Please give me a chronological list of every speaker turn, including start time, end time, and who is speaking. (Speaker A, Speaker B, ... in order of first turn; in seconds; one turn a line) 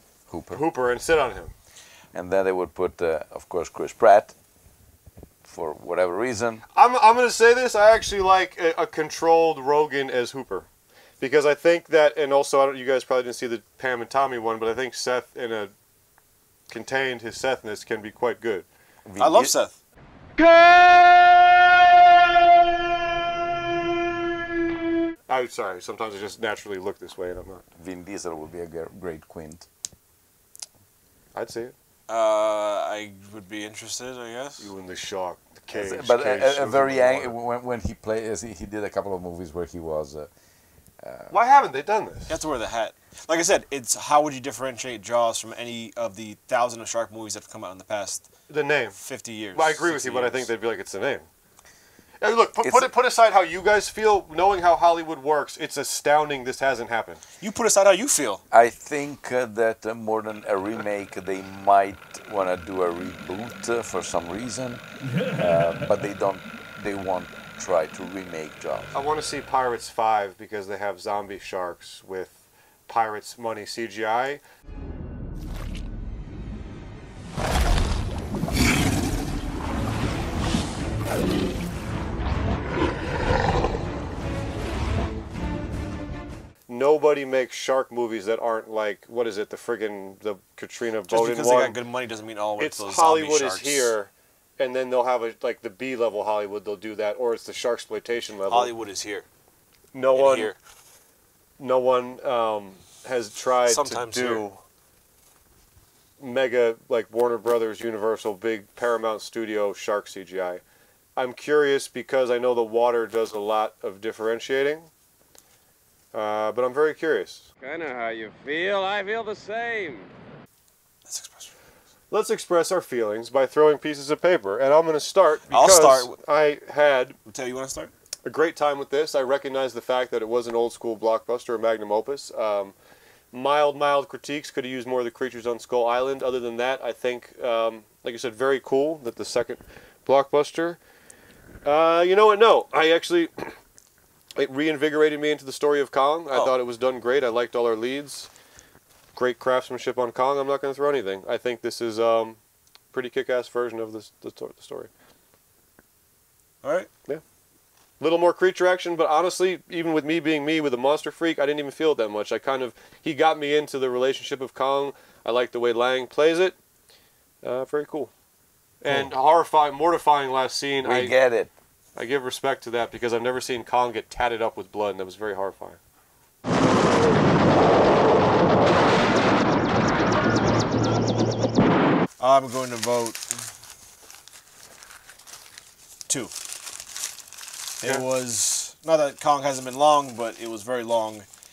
Speaker A: 0.3-0.6
Speaker B: 0.5-1.5
Speaker A: 2.1-4.3
Speaker A: 5.4-6.6
Speaker B: 6.7-10.7
Speaker B: 11.2-15.7
Speaker B: 16.7-18.7
Speaker A: 19.1-19.5
Speaker C: 19.2-19.8
Speaker B: 20.4-20.7
Speaker B: 25.3-27.6
Speaker A: 27.8-29.7
Speaker B: 31.3-31.7
Speaker C: 32.1-34.7
Speaker B: 34.6-37.4
Speaker A: 35.7-40.3
Speaker A: 41.0-41.4
Speaker B: 41.3-42.4
Speaker C: 42.3-48.3
Speaker B: 48.5-49.0
Speaker C: 49.0-50.5
Speaker B: 49.5-51.3
Speaker B: 52.2-57.2
Speaker A: 52.6-52.9
Speaker C: 57.4-58.4
Speaker A: 58.5-68.9
Speaker B: 68.9-74.4
Speaker B: 86.7-91.8
Speaker C: 91.1-93.9
Speaker B: 92.6-98.8
Speaker C: 98.5-99.3
Speaker B: 99.9-100.5
Speaker C: 100.1-100.6
Speaker B: 101.6-104.6
Speaker C: 103.7-104.5
Speaker B: 106.2-110.6
Speaker B: 111.2-114.9
Speaker B: 116.1-117.5
Speaker D: 117.6-120.1
Speaker C: 121.1-121.5
Speaker B: 122.1-127.2
Speaker C: 125.5-126.2
Speaker C: 127.2-127.9
Speaker B: 128.2-132.8
Speaker B: 133.3-140.8
Speaker B: 141.7-143.5
Speaker B: 144.4-148.3
Speaker B: 149.2-152.4
Speaker B: 152.9-154.9
Speaker C: 156.6-156.9
Speaker B: 158.0-166.6
Speaker B: 167.4-168.1
Speaker B: 168.8-171.2
Speaker A: 170.8-171.5
Speaker B: 172.0-175.8
Speaker C: 182.2-183.5
Speaker C: 186.1-186.3
Speaker C: 187.8-191.3